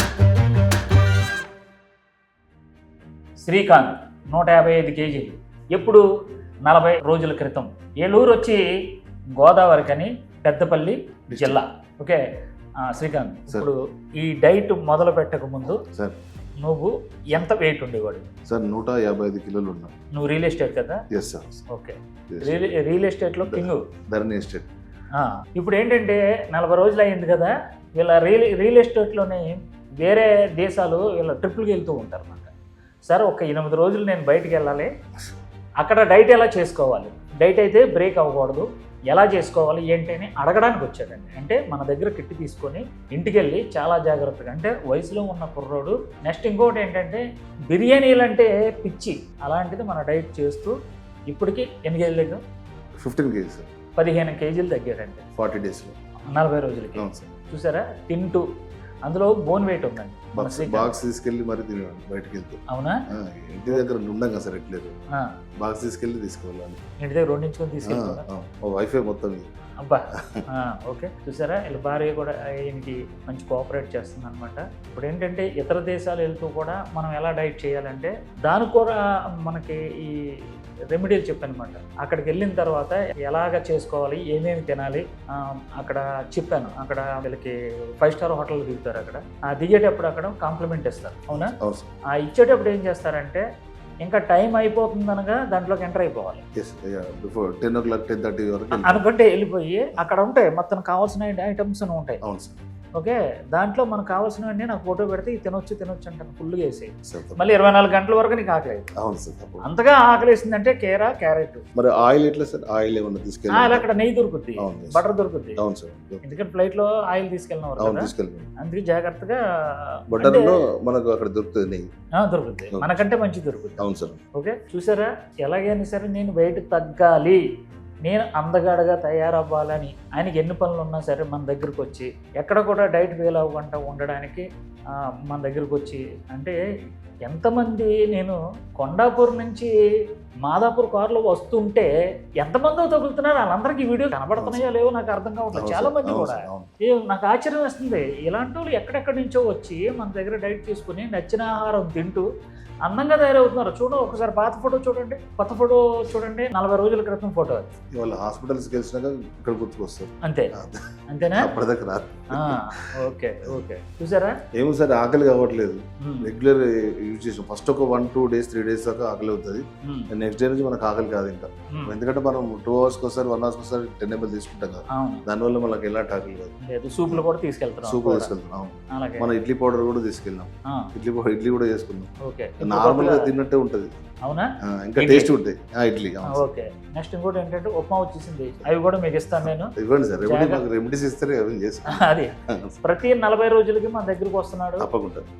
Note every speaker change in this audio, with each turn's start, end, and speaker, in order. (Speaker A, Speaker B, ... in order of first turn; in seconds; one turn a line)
Speaker A: 3.4-6.0
Speaker A: 6.7-8.7
Speaker A: 9.3-12.2
Speaker B: 11.3-11.6
Speaker A: 12.8-15.8
Speaker B: 15.8-16.2
Speaker A: 16.6-18.3
Speaker B: 18.5-19.9
Speaker A: 20.1-21.0
Speaker B: 21.1-21.6
Speaker A: 21.7-23.9
Speaker B: 22.3-22.6
Speaker B: 23.4-24.7
Speaker A: 25.1-32.5
Speaker A: 33.1-34.9
Speaker A: 35.8-50.8
Speaker A: 51.3-52.4
Speaker B: 53.0-53.7
Speaker A: 54.0-55.2
Speaker B: 55.4-56.0
Speaker A: 56.3-58.5
Speaker B: 57.0-57.3
Speaker A: 59.0-60.9
Speaker B: 60.4-64.9
Speaker A: 62.7-63.0
Speaker B: 65.6-66.8
Speaker A: 67.0-68.2
Speaker B: 67.8-69.5
Speaker A: 69.8-91.5
Speaker B: 70.1-70.4
Speaker B: 91.3-91.9
Speaker A: 92.2-93.4
Speaker A: 94.0-96.4
Speaker B: 96.5-99.0
Speaker A: 98.7-102.2
Speaker B: 102.2-102.6
Speaker A: 103.0-108.9
Speaker B: 107.1-107.5
Speaker B: 109.0-109.7
Speaker A: 109.6-111.6
Speaker B: 111.7-113.9
Speaker A: 113.5-115.6
Speaker B: 114.6-115.0
Speaker B: 115.6-116.2
Speaker A: 116.2-120.6
Speaker B: 117.8-118.5
Speaker B: 120.1-121.9
Speaker A: 122.2-123.8
Speaker B: 123.8-124.2
Speaker A: 124.3-127.4
Speaker A: 128.0-136.6
Speaker A: 137.2-139.7
Speaker A: 140.4-152.2
Speaker B: 144.4-144.7
Speaker B: 145.5-146.7
Speaker A: 152.8-157.7
Speaker B: 157.9-162.9
Speaker A: 160.2-160.5
Speaker A: 161.1-161.6
Speaker A: 162.3-164.4
Speaker B: 164.5-177.3
Speaker A: 166.0-166.3
Speaker A: 169.8-170.1
Speaker A: 171.7-171.9
Speaker A: 174.9-175.2
Speaker A: 176.6-178.3
Speaker B: 177.8-183.9
Speaker A: 178.9-179.3
Speaker A: 182.2-183.3
Speaker A: 184.2-185.3
Speaker B: 184.6-186.5
Speaker A: 186.2-190.6
Speaker B: 189.4-192.8
Speaker A: 191.9-194.9
Speaker B: 194.8-195.2